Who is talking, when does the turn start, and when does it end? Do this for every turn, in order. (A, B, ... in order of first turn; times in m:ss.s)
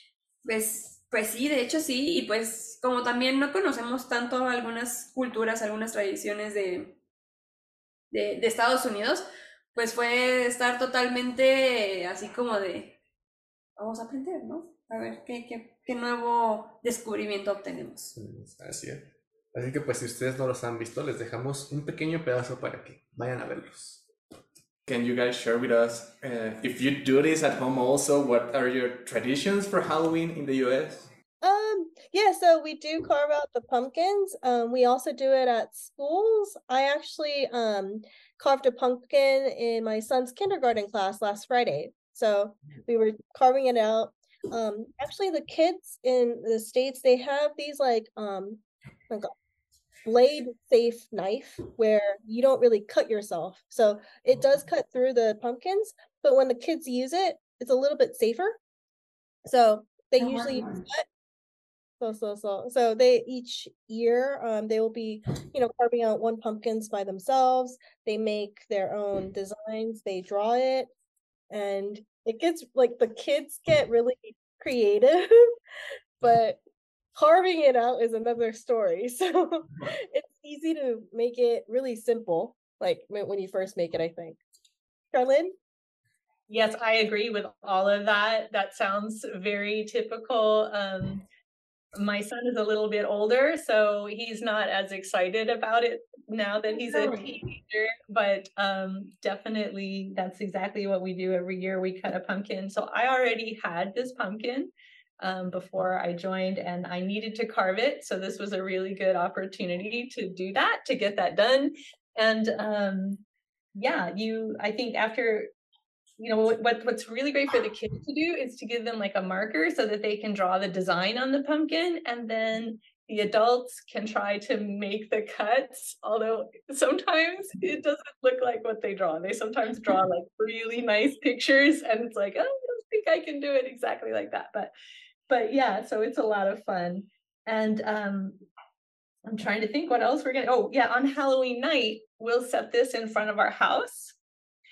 0:00.4-0:07.0 A
0:08.1-0:13.0 A
0:13.8-0:18.1 A
0:18.1-0:24.0 B
0:24.8-0:31.1 B
0:31.4-0:49.3 C
0:50.0-0:58.6 C
0:59.4-1:01.0 C
1:00.2-1:00.8 A
1:02.0-1:10.9 C
1:11.5-1:15.5 C
1:16.2-1:16.6 C
1:17.1-1:24.4 C
1:25.1-1:25.5 C
1:26.5-1:31.2 D
1:31.9-1:53.2 D
1:53.7-1:55.5 D
1:56.2-2:14.7 D
2:15.3-2:18.4 D
2:19.2-2:24.2 D